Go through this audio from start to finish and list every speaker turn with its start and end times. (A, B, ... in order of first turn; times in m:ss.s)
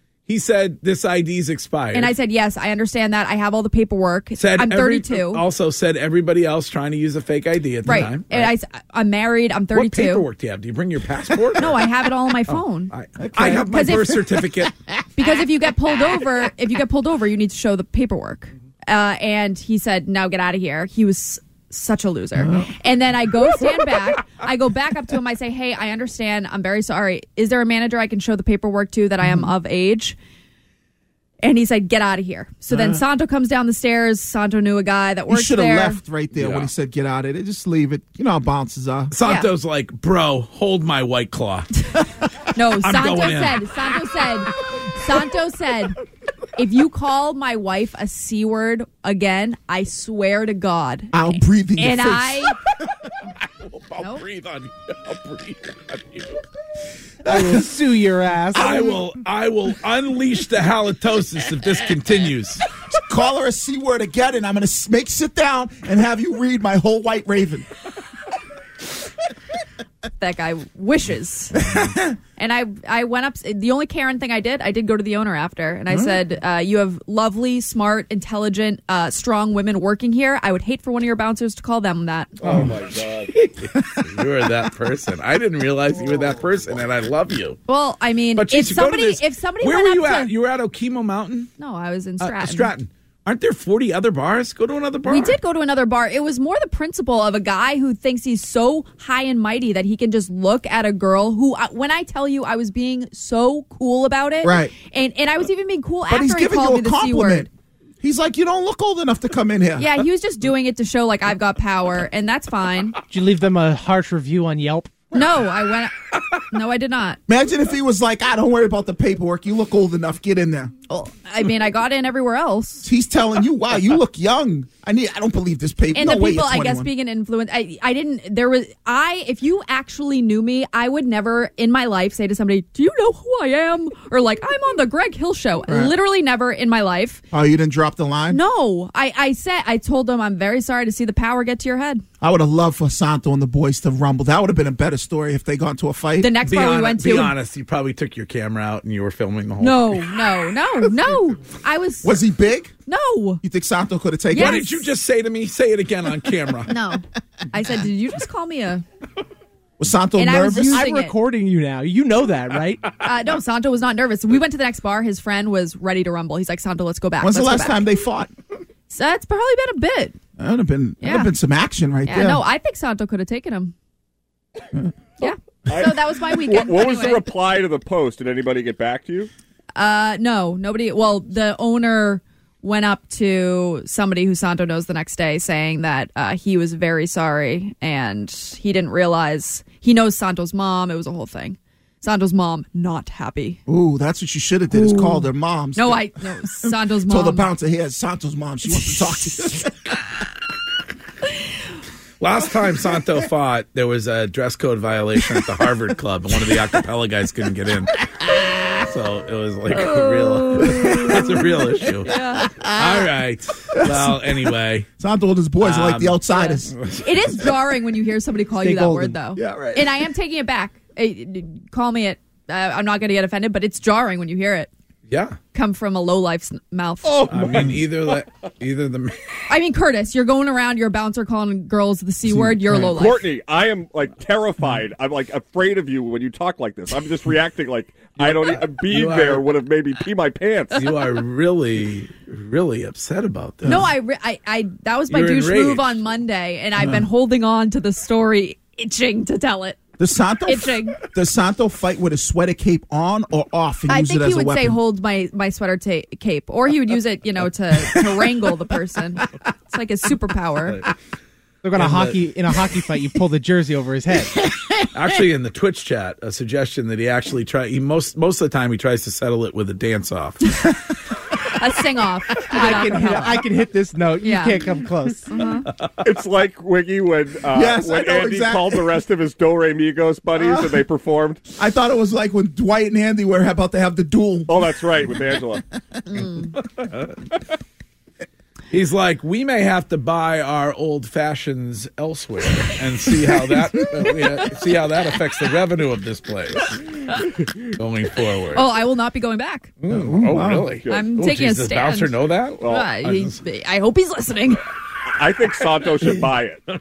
0:00.3-0:02.2 A
0:01.9-0:05.4 B
0:04.4-0:08.5 A
0:07.8-0:10.2 B
0:09.7-0:11.8 A
0:11.6-0:14.2 B
0:12.5-0:14.7 A
0:13.2-0:14.2 C
0:15.2-0:30.2 B
0:22.4-0:22.7 C
0:29.2-0:29.5 C
0:31.4-0:36.0 B
0:32.7-0:33.0 C
0:35.3-0:39.1 C
0:36.3-0:36.7 A
0:39.1-0:41.7 A
0:39.2-0:39.5 B
0:42.5-0:46.0 B
0:42.8-0:43.8 A
0:46.6-0:52.6 B
0:51.1-0:52.6 C
0:53.4-0:56.4 A
0:57.2-0:58.8 D
0:57.2-0:57.6 C
0:58.5-1:02.6 A
1:02.9-1:07.7 C
1:10.2-1:11.7 B
1:11.6-1:12.2 C
1:12.4-1:22.3 B
1:15.9-1:16.2 C
1:22.4-1:27.6 A
1:22.5-1:23.2 E
1:27.7-1:30.3 B
1:28.3-1:31.5 A
1:31.6-1:32.7 B
1:32.2-1:35.4 A
1:35.0-1:47.5 B
1:44.4-1:44.7 C
1:46.1-1:47.5 C
1:48.0-1:49.9 C
1:49.8-1:53.0 B
1:53.1-1:55.2 D
1:55.1-1:57.2 B
1:57.3-2:00.9 C
2:00.9-2:02.8 B
2:02.8-2:06.9 C
2:05.9-2:17.2 B
2:15.7-2:15.9 C
2:17.3-2:18.4 C
2:18.3-2:22.0 B
2:22.2-2:26.3 C
2:26.2-2:27.3 B
2:26.4-2:30.2 A
2:29.6-2:32.2 B
2:32.0-2:32.7 C
2:32.9-2:33.4 B
2:33.4-2:34.7 C
2:34.3-2:34.8 B
2:34.3-2:36.7 A
2:36.7-2:38.8 B
2:39.8-2:40.8 C
2:40.2-2:41.1 B
2:40.7-2:42.9 D
2:43.0-2:47.8 B
2:47.2-2:48.3 C
2:48.9-2:50.2 B
2:50.4-2:52.4 C
2:51.0-2:51.3 B
2:52.0-2:53.7 B
2:55.2-2:57.3 B
2:55.2-2:59.3 E
2:59.8-3:13.6 B
3:13.7-3:19.7 C
3:14.7-3:17.4 B
3:22.2-3:28.1 A
3:28.8-3:34.9 A
3:29.8-3:31.2 B
3:30.7-3:31.3 C
3:32.0-3:32.5 B
3:32.5-3:32.8 C
3:33.7-3:34.3 C
3:35.0-3:36.8 C
3:35.6-3:37.0 A
3:36.4-3:44.7 B
3:38.6-3:39.2 D
3:39.4-3:39.9 C
3:45.1-3:45.4 A
3:45.5-3:47.3 B
3:47.0-3:48.2 E
3:47.3-3:49.4 A
3:49.5-3:53.2 B
3:52.3-3:52.8 C
3:52.9-4:00.8 E
3:58.2-3:59.5 A
4:00.7-4:03.9 A
4:03.6-4:09.8 B
4:05.1-4:06.0 A
4:06.8-4:07.0 C
4:10.0-4:14.8 C
4:10.4-4:11.0 B
4:13.9-4:20.8 B
4:21.6-4:24.6 D
4:21.7-4:22.2 A
4:24.9-4:30.5 A
4:31.4-4:33.4 B
4:32.5-4:35.3 D
4:34.2-4:34.6 B
4:35.3-4:35.6 B
4:36.0-4:41.4 E
4:37.5-4:38.9 C
4:41.6-4:44.7 C
4:44.5-4:45.6 E
4:46.1-4:46.5 B
4:48.7-4:56.8 A
4:54.1-4:54.5 B
4:57.7-4:58.7 A
4:58.5-4:59.7 B
4:59.8-5:03.4 A
4:59.9-5:00.7 C
4:59.9-5:01.0 E
5:00.9-5:04.6 B
5:02.6-5:02.9 E
5:05.1-5:06.6 E